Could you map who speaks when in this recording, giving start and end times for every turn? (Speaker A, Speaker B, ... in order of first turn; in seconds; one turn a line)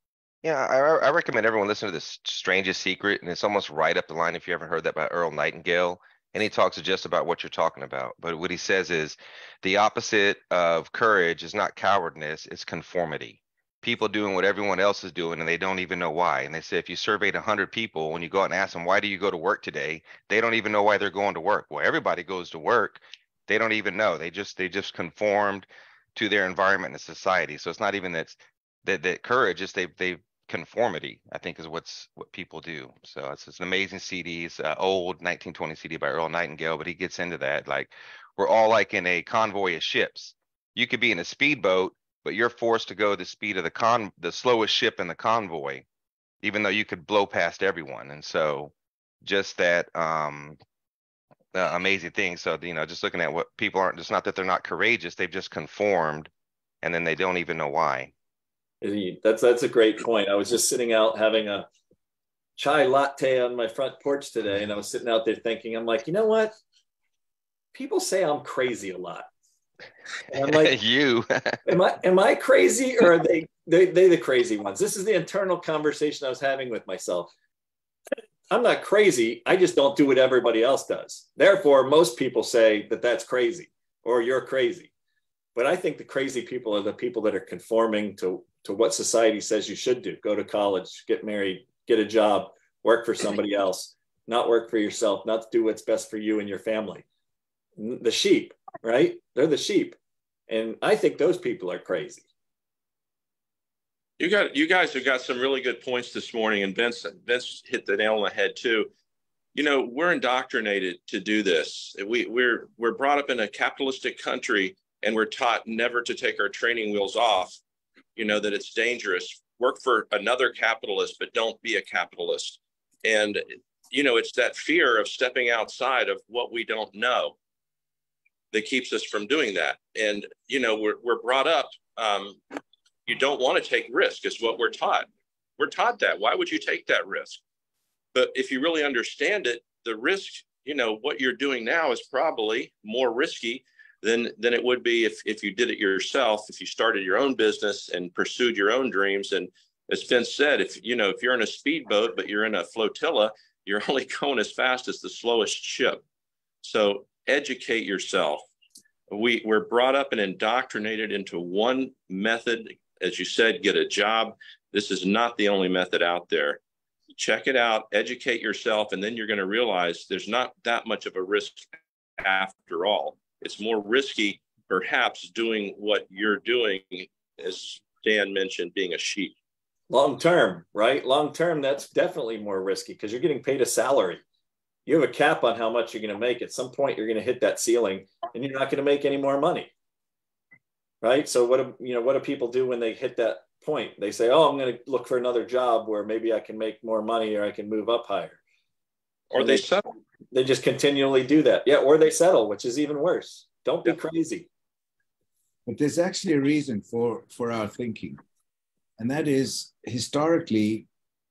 Speaker A: 0.4-45.9
Speaker A: 46.4-48.7
Speaker A: 49.2-50.6
Speaker A: 51.5-56.3
Speaker A: 56.8-58.1
Speaker B: 58.8-61.7
Speaker B: 62.6-66.5
Speaker B: 67.7-69.3
Speaker B: 70.3-70.7
Speaker A: 70.4-71.6
Speaker B: 71.7-77.3
Speaker B: 78.5-84.9
Speaker B: 85.5-97.0
Speaker B: 97.8-100.0
Speaker B: 100.5-102.3
Speaker C: 104.2-108.9
Speaker C: 109.5-117.6
Speaker C: 118.2-127.4
Speaker C: 128.5-132.4
Speaker C: 133.1-137.4
Speaker C: 138.1-156.0
Speaker C: 156.6-158.4
Speaker C: 159.1-166.6
Speaker C: 167.1-179.4
Speaker B: 179.9-184.2
Speaker B: 184.9-189.7
Speaker B: 191.0-198.4
Speaker C: 199.3-199.9
Speaker B: 199.4-199.7
Speaker B: 200.3-204.5
Speaker D: 205.7-208.2
Speaker D: 209.0-210.9